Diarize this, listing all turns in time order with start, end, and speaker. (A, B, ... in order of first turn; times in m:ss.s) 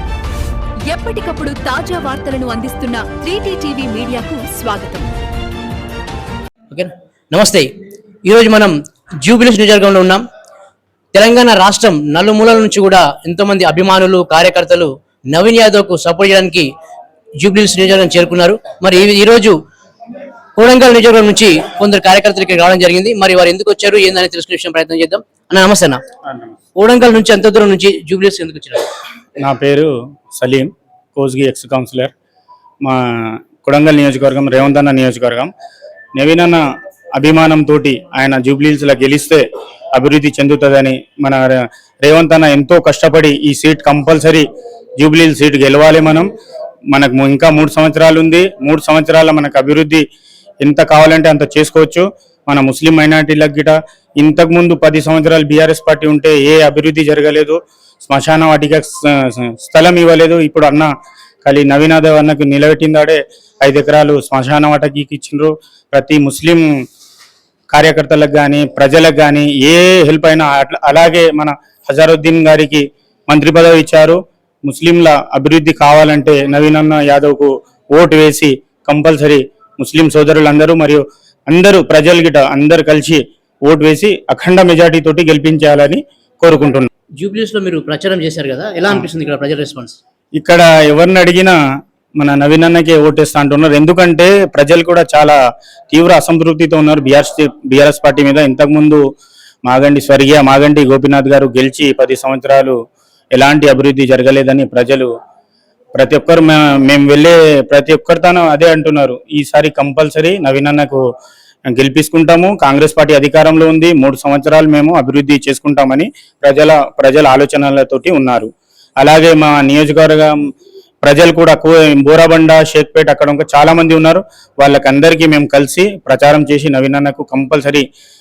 0:00.9-0:05.1 A
0:06.7-0:07.7 B
0:08.2-0:10.2 B
0:11.1-0:16.7 B
0:17.4-0:19.6 B
0:20.6-0:26.0 B
0:26.3-0:26.6 C
0:26.8-0:28.9 B
0:29.4-0:32.1 C
0:32.8-0:35.5 C
0:36.2-0:36.6 C
0:37.2-0:44.5 C
0:45.0-0:46.3 C
0:46.9-0:50.0 C
0:50.6-1:00.9 C
1:01.4-1:06.6 C
1:07.7-1:26.9 C
1:27.2-1:30.0 B
1:30.4-1:31.6 C
1:32.2-1:35.4 C
1:35.9-1:39.0 C
1:39.7-1:42.8 C
1:43.3-1:45.1 C
1:46.0-1:51.0 C
1:51.7-2:00.4 C
2:01.0-2:07.8 C